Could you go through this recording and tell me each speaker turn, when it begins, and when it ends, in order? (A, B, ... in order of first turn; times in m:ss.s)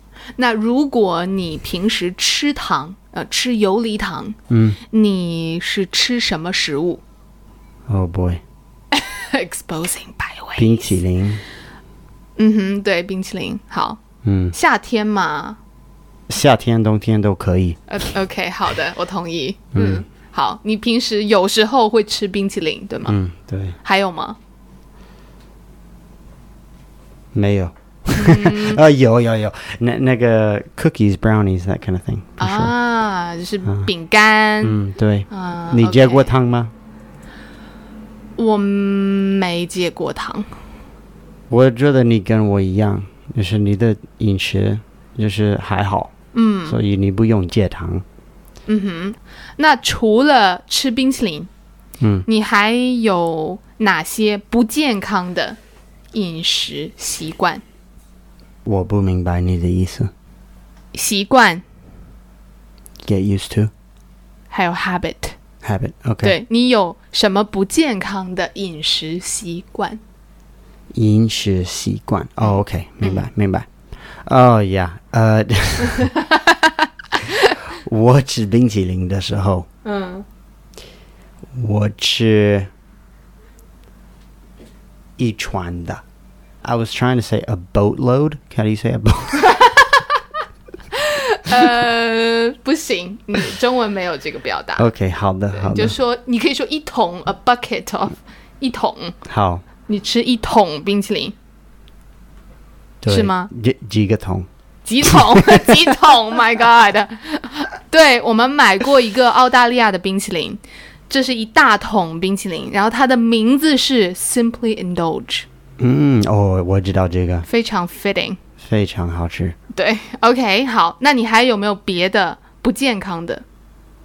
0:00.4-0:04.4 A
0:04.5-0:04.8 B
0:04.9-0:07.0 A
0:07.9-0:08.4 B
0:08.9-0:11.0 A
0:10.6-0:11.4 B
0:12.4-0:14.0 A
0:14.2-0:14.5 B
0:14.5-0:15.6 A
0:16.3-0:17.8 B
0:17.9-0:23.2 A
0:19.7-0:20.0 B
0:23.1-0:23.8 B
0:23.8-0:24.4 A
0:27.3-0:32.7 B
0:28.1-0:28.8 A
0:32.4-0:34.8 A
0:34.6-0:36.7 B
0:35.3-0:36.3 A
0:38.4-0:40.5 A
0:41.5-0:46.1 B
0:46.3-0:46.8 A
0:46.7-0:48.0 B
0:48.7-0:51.5 A
0:52.0-0:52.3 B
0:52.3-0:55.6 A
0:56.1-0:57.6 A
0:58.6-1:00.1 B
1:00.9-1:01.6 A
1:03.0-1:03.7 B
1:04.5-1:05.4 A
1:05.6-1:06.4 B
1:06.2-1:10.0 A
1:10.9-1:13.7 B
1:13.0-1:13.3 A
1:14.2-1:16.1 B
1:15.9-1:17.6 A
1:17.7-1:19.7 B
1:19.8-1:20.2 A
1:21.5-1:22.7 B
1:25.2-1:26.0 B
1:26.6-1:29.5 B
1:29.4-1:30.1 A
1:30.9-1:34.9 A
1:34.8-1:36.0 B
1:35.5-1:39.2 A
1:39.2-1:39.6 B
1:39.9-1:41.4 A
1:43.0-1:44.5 B
1:43.1-1:43.5 A
1:44.8-1:55.5 A
1:45.0-1:46.2 B
1:55.8-1:57.5 B
1:57.5-1:58.4 A
1:58.6-1:59.6 B
1:59.8-2:03.4 A